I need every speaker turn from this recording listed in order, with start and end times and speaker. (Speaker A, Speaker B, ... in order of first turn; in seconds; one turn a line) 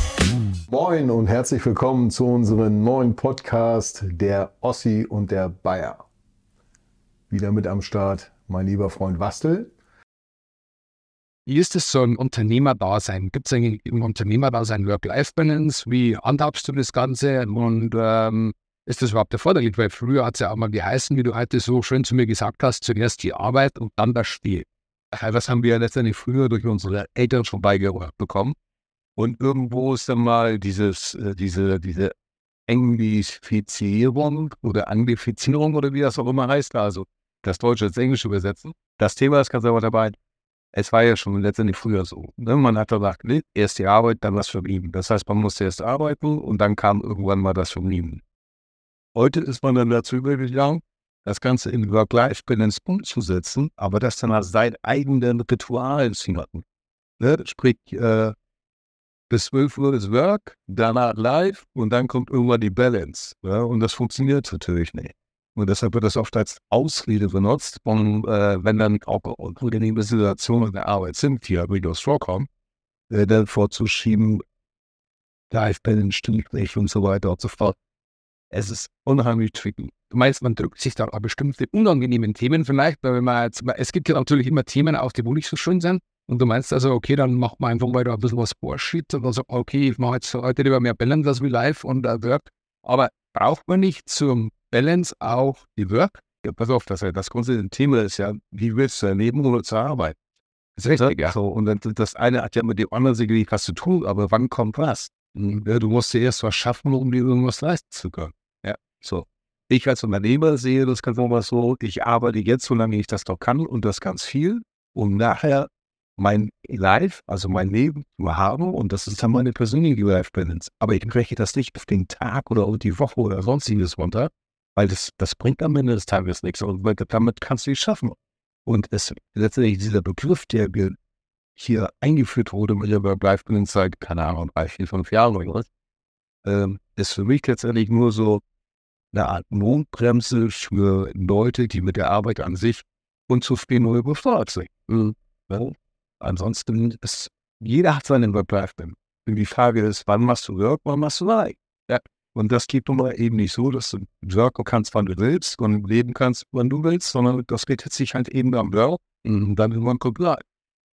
Speaker A: 0.7-6.0
Speaker A: 7.3-9.7
Speaker B: 11.5-24.7
Speaker C: 25.1-28.6
Speaker C: 29.2-32.1
Speaker C: 32.7-40.2
Speaker C: 40.7-48.2
Speaker C: 49.1-56.6
Speaker C: 57.2-58.4
Speaker C: 59.3-72.5
Speaker C: 73.1-74.4
Speaker C: 75.5-77.8
Speaker C: 78.5-80.0
Speaker B: 80.1-96.1
Speaker C: 96.4-100.2
Speaker B: 100.8-101.4
Speaker C: 100.9-131.0
Speaker C: 131.6-135.7
Speaker C: 136.4-138.4
Speaker C: 139.1-160.4